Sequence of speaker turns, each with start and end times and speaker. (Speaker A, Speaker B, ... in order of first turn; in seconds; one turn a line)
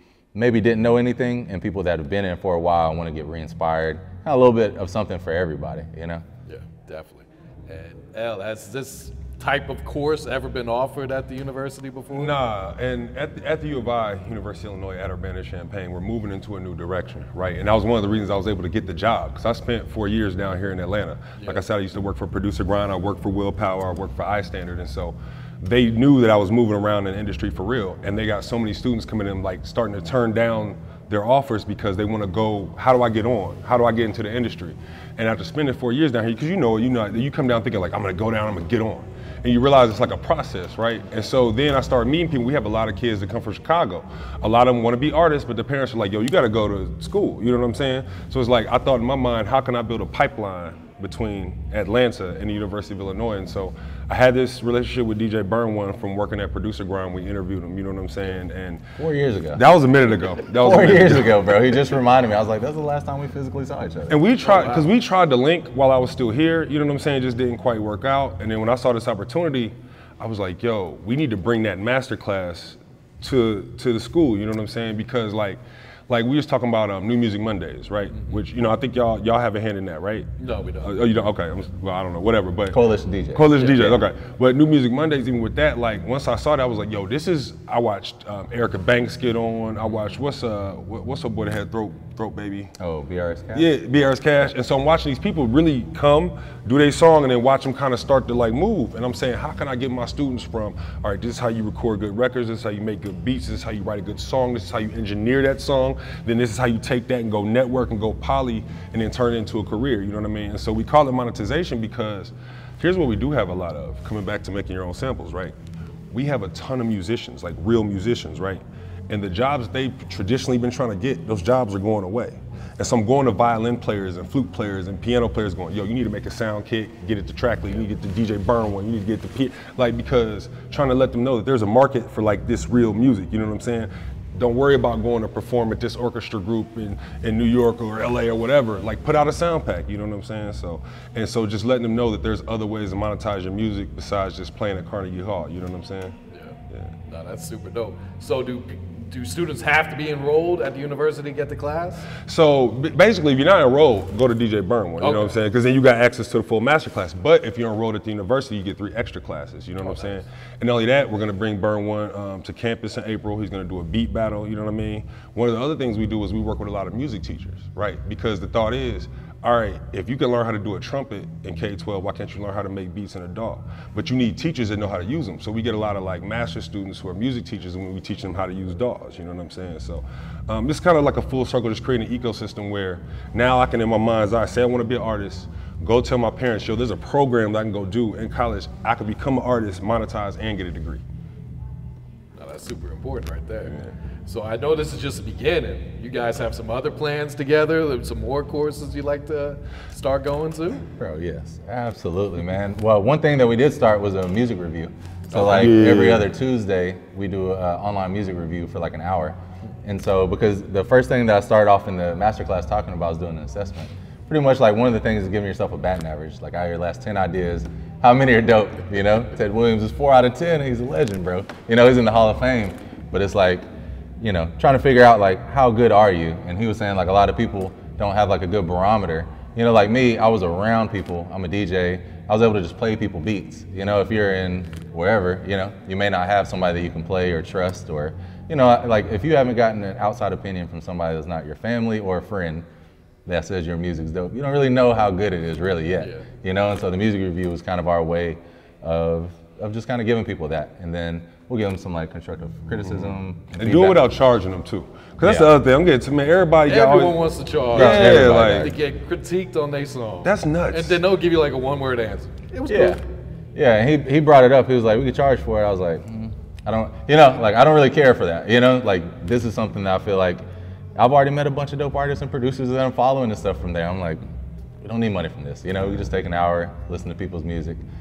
Speaker A: 0.3-6.2
Speaker B: 6.5-12.4
Speaker C: 12.1-58.8
Speaker B: 21.4-21.6
Speaker A: 59.0-59.6
Speaker C: 59.5-61.5
Speaker A: 60.6-64.2
Speaker C: 64.1-82.8
Speaker B: 64.4-64.9
Speaker B: 80.4-81.1
Speaker A: 82.7-84.0
Speaker C: 83.3-92.7
Speaker B: 83.5-84.0
Speaker A: 92.8-93.7
Speaker C: 93.5-115.5
Speaker C: 116.1-146.2
Speaker B: 146.3-152.1
Speaker C: 152.2-191.0
Speaker B: 155.0-155.3
Speaker B: 159.8-160.1
Speaker B: 192.3-200.8
Speaker C: 193.7-193.9
Speaker A: 200.9-223.7
Speaker C: 205.3-206.3
Speaker B: 205.4-205.7
Speaker A: 224.2-242.7
Speaker A: 243.2-254.1
Speaker B: 246.0-246.2
Speaker C: 252.9-258.7
Speaker A: 255.2-255.5
Speaker B: 256.6-263.0
Speaker A: 257.7-258.8
Speaker C: 260.2-261.0
Speaker A: 262.7-263.0
Speaker A: 263.5-270.4
Speaker A: 270.9-274.2
Speaker A: 274.8-277.8